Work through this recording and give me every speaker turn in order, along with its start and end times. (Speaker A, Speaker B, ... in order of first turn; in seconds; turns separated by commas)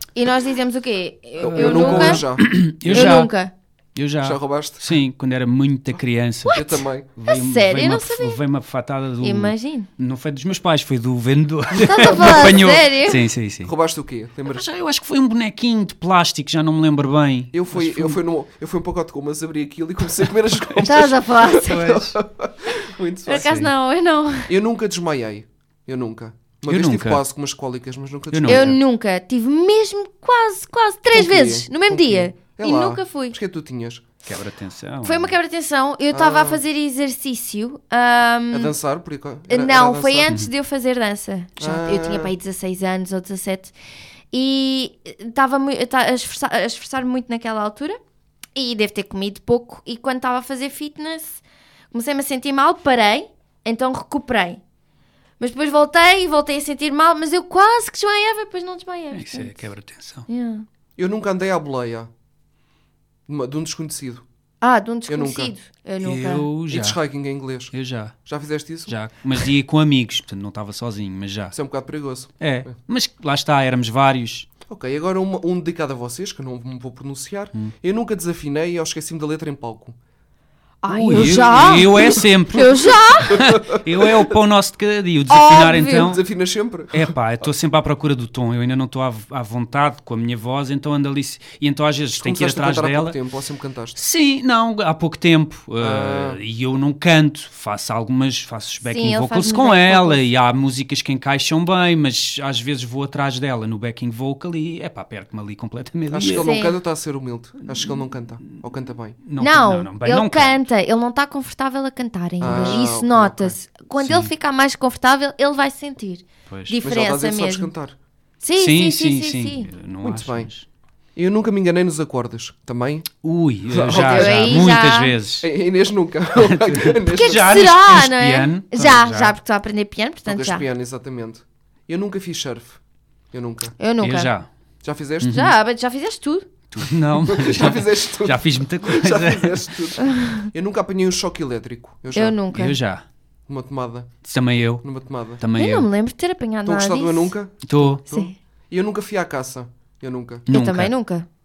Speaker A: 0.1-2.3, Speaker B: 1.4-3.2, Speaker C: 1.4-3.3, Speaker A: 2.9-3.5, Speaker C: 3.9-13.7, Speaker B: 4.2-4.9, Speaker A: 6.5-8.4, Speaker B: 6.5-7.1, Speaker A: 9.2-9.9, Speaker A: 11.8-13.2, Speaker B: 11.9-12.5, Speaker B: 13.6-14.7, Speaker C: 14.5-18.2, Speaker B: 17.5-23.6, Speaker A: 20.8-21.9, Speaker C: 21.5-22.2, Speaker A: 23.2-24.5, Speaker C: 23.3-23.7, Speaker B: 24.5-28.8, Speaker C: 26.6-27.2, Speaker C: 28.3-28.8, Speaker A: 28.5-33.4, Speaker B: 31.1-34.0, Speaker C: 34.2-35.3, Speaker A: 35.0-38.7, Speaker B: 36.1-36.6, Speaker B: 38.5-40.3, Speaker A: 39.5-43.7, Speaker B: 41.6-42.3, Speaker A: 44.3-48.0, Speaker A: 48.5-54.6, Speaker A: 55.4-59.6, Speaker C: 59.1-60.3, Speaker A: 60.3-60.6, Speaker B: 61.0-62.1, Speaker B: 63.3-64.2, Speaker A: 64.6-66.5, Speaker B: 65.1-65.5, Speaker C: 66.0-67.0, Speaker B: 66.7-67.7, Speaker C: 67.7-68.2, Speaker B: 68.2-68.9, Speaker C: 68.9-71.5, Speaker B: 71.5-72.7, Speaker C: 72.4-74.5, Speaker B: 74.7-80.0, Speaker A: 80.8-83.5, Speaker C: 80.9-86.2, Speaker B: 81.1-82.1, Speaker B: 83.3-84.3, Speaker A: 85.3-86.1, Speaker B: 85.8-87.1, Speaker C: 86.9-93.2, Speaker B: 92.2-94.0, Speaker C: 94.0-106.5, Speaker B: 95.8-96.4, Speaker A: 98.8-100.2, Speaker B: 106.1-109.2, Speaker A: 106.3-106.8, Speaker C: 107.7-108.6, Speaker C: 109.2-110.6, Speaker A: 109.4-117.7, Speaker B: 112.4-113.5, Speaker C: 112.4-112.8, Speaker C: 114.0-114.3, Speaker C: 116.5-116.8, Speaker B: 116.8-118.0, Speaker A: 118.4-119.7, Speaker C: 118.6-120.7, Speaker B: 120.0-120.5, Speaker B: 121.1-123.1, Speaker C: 123.2-125.5, Speaker B: 123.7-124.8, Speaker A: 123.9-125.1, Speaker B: 125.4-127.6, Speaker C: 126.4-129.3, Speaker A: 127.1-130.6, Speaker B: 130.3-132.8, Speaker B: 133.3-133.7, Speaker A: 133.8-134.3, Speaker C: 134.0-134.5, Speaker B: 134.8-135.3, Speaker C: 135.2-135.5, Speaker A: 135.2-136.5, Speaker C: 136.7-139.8, Speaker B: 137.2-142.4, Speaker A: 140.0-140.5, Speaker A: 142.1-142.8, Speaker C: 142.5-143.0, Speaker B: 143.5-144.1, Speaker C: 144.2-144.8, Speaker B: 144.8-145.4, Speaker C: 145.4-145.9, Speaker A: 145.6-147.3, Speaker B: 146.6-150.5, Speaker C: 147.6-148.0, Speaker A: 148.1-148.3, Speaker C: 150.5-150.9, Speaker A: 150.5-151.3